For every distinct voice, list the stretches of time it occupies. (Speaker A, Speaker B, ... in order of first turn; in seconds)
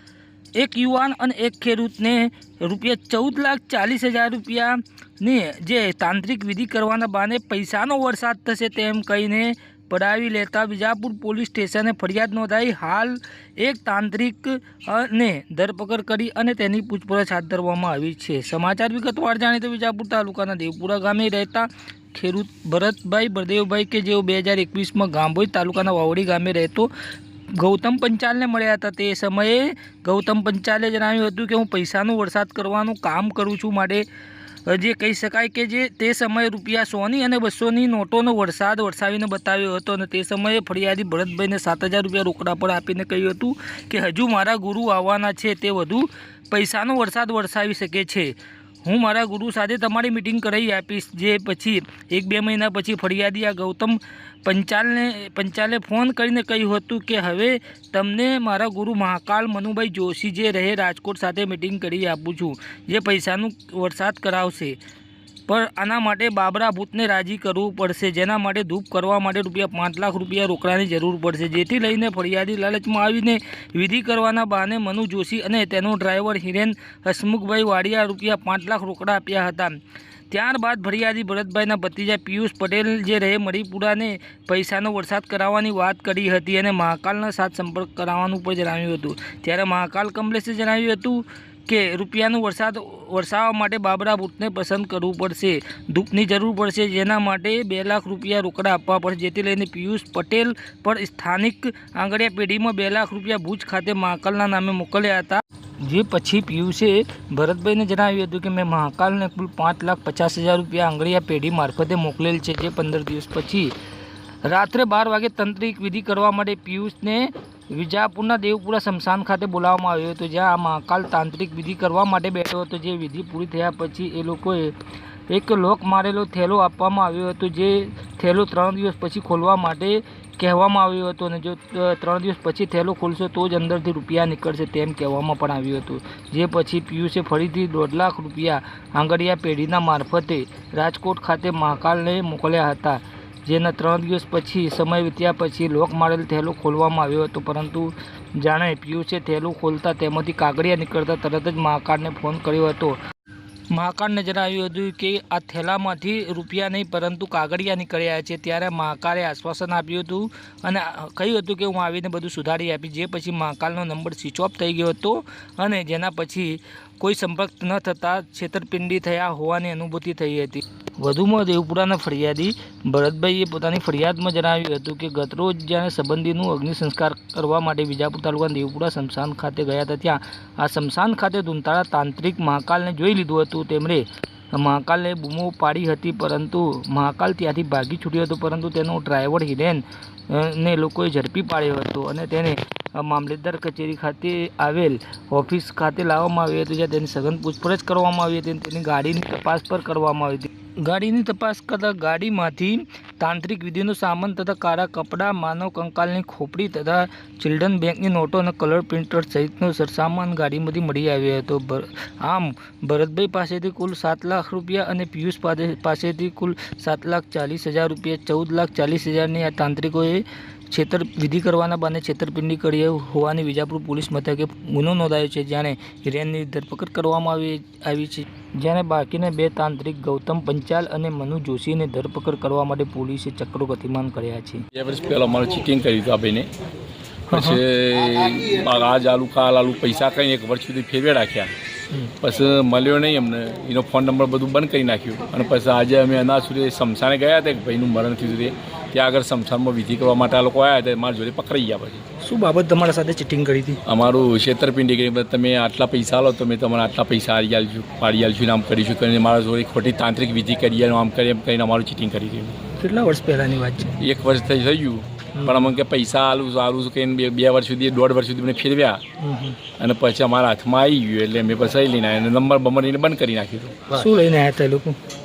Speaker A: 0.6-26.9, 27.5-34.0, 34.7-48.3, 48.8-64.8, 65.5-79.8, 80.3-113.7, 114.4-124.8, 125.3-153.0, 153.7-234.7, 237.3-237.6, 252.2-253.8, 262.8-264.0, 265.3-265.7, 269.2-269.6, 273.9-275.0
Speaker B: 234.7-236.5, 237.3-241.5, 242.2-252.0, 253.8-262.6, 264.0-269.0, 269.8-273.8